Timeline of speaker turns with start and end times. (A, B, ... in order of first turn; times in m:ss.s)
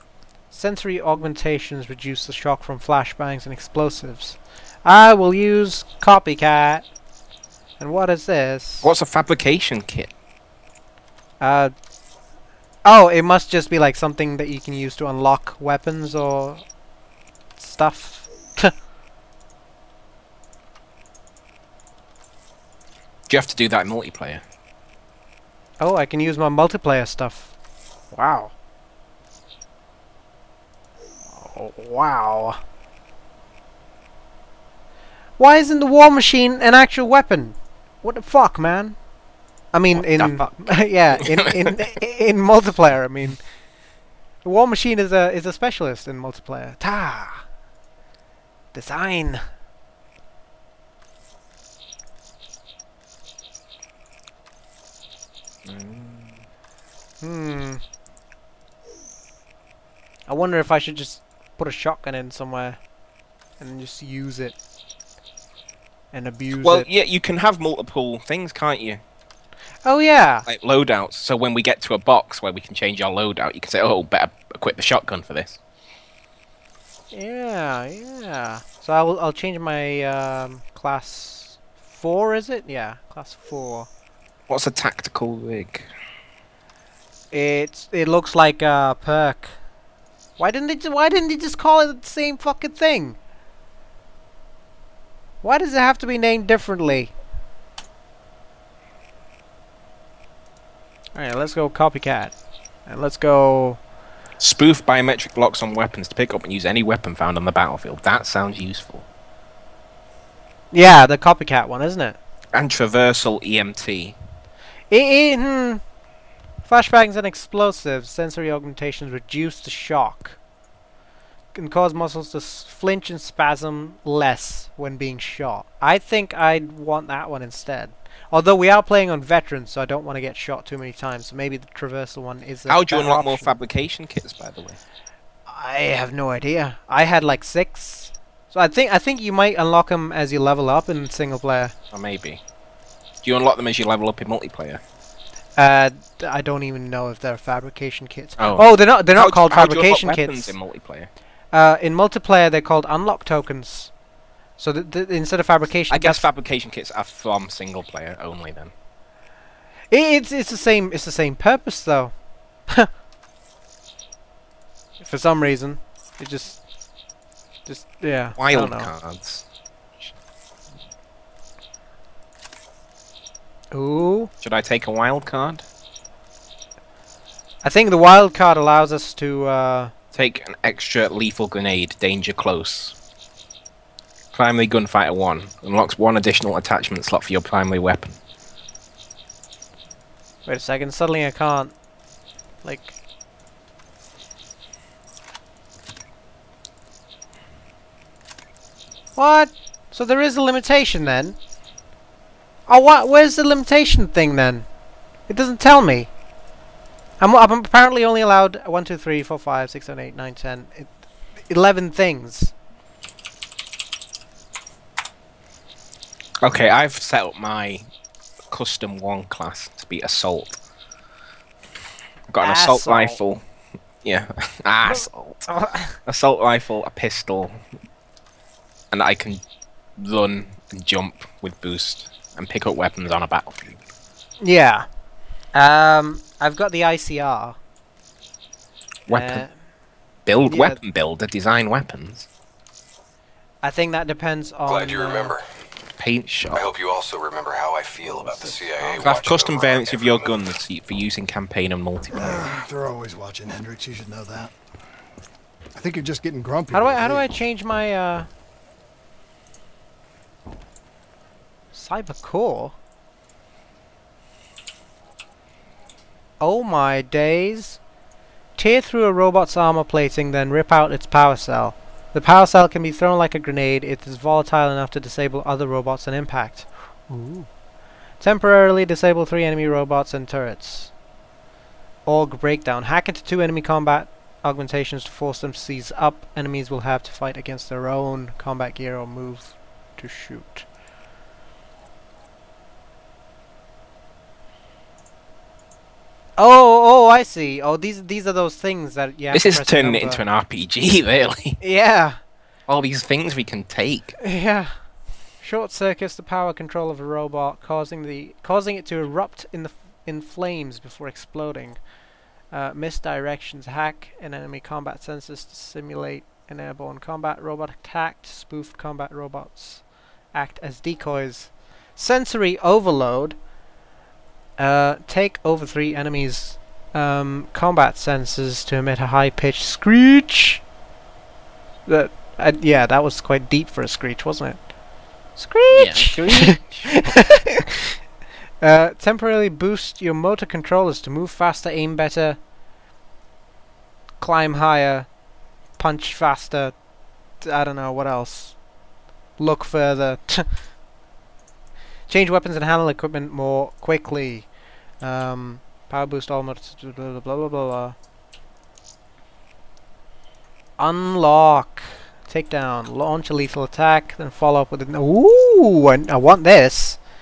0:00.5-0:06.9 A
0:07.8-0:08.9 A
0:08.8-0:10.1 B
0:11.4-0:11.7 A
0:12.8-0:16.6 A
0:17.6-0:18.7 A
0:23.3-0:24.4 B
0:25.8-0:27.5 A
0:28.1-0:28.5 A
0:31.3-0:32.6 A
0:35.4-0:39.0 A
0:39.7-0:43.4 A
0:39.9-0:41.7 B
0:44.4-0:47.4 A
0:48.7-0:49.5 A
0:55.6-0:56.4 B
0:57.2-0:57.8 A
1:00.3-1:02.8 A
1:03.6-1:04.5 A
1:06.1-1:06.9 A
1:06.6-1:09.0 B
1:09.8-1:10.4 A
1:10.4-1:15.6 B
1:17.1-1:23.9 A
1:24.5-1:25.9 B
1:27.3-1:29.6 A
1:30.4-1:33.2 A
1:35.4-1:37.1 A
1:41.1-1:42.3 A
1:42.9-1:43.8 A
1:44.4-1:49.0 B
1:50.7-1:52.2 A
1:52.5-1:54.2 B
1:54.9-1:55.8 A
1:56.6-2:00.4 A
2:01.5-2:13.6 A
2:12.7-2:14.8 B
2:15.5-2:21.7 A
2:21.9-2:22.4 B
2:23.2-2:24.8 B
2:25.6-2:30.6 A
2:28.4-2:31.1 B
2:31.5-2:33.9 A
2:34.6-2:36.3 A
2:35.9-2:38.7 B
2:39.9-2:42.1 A
2:45.0-2:46.6 A
2:47.6-2:48.9 A
2:48.4-2:49.4 B
2:53.7-2:54.3 A
2:54.4-2:55.6 B
2:57.6-2:59.9 A
3:00.1-3:02.9 B
3:04.3-3:08.2 B
3:10.4-3:11.7 A
3:12.6-3:12.9 A
3:19.2-3:21.4 A
3:22.7-3:24.7 A
3:25.3-3:26.1 A
3:27.2-3:30.9 A
3:31.5-3:32.5 A
3:36.4-3:37.9 B
3:38.5-3:40.6 B
3:42.3-3:43.4 B
3:42.4-3:43.2 A
3:44.0-3:45.5 B
3:44.8-3:46.0 A
3:46.0-3:47.6 B
3:48.9-3:49.4 B
3:50.0-3:53.8 B
3:54.4-3:54.9 A
3:55.5-3:57.6 A
3:59.1-3:59.4 B
3:59.1-3:59.6 A
4:00.2-4:02.3 B
4:00.4-4:00.8 A
4:03.6-4:05.4 A
4:04.7-4:05.4 C
4:06.0-4:06.6 B
4:06.5-4:10.4 C
4:08.0-4:09.2 A
4:09.0-4:12.5 B
4:12.1-4:14.5 D
4:15.7-4:17.3 D
4:16.7-4:18.3 A
4:21.7-4:22.7 A
4:26.4-4:27.8 A
4:28.6-4:37.5 A
4:38.2-4:40.9 A
4:42.0-4:50.6 A
4:56.4-5:00.2 A
4:59.3-5:01.6 B
5:01.6-5:02.2 A
5:02.7-5:04.2 B
5:04.2-5:04.7 A
5:05.4-5:11.8 A
5:12.5-5:23.4 A
5:24.6-5:30.6 A
5:31.8-5:34.7 A
5:35.3-5:37.8 A
5:35.7-5:37.2 B
5:38.6-5:42.4 A
5:44.2-5:45.1 A
5:45.8-5:46.8 A
5:47.4-5:48.6 A
5:49.4-5:50.6 A
5:52.1-5:58.0 A
6:00.8-6:07.0 A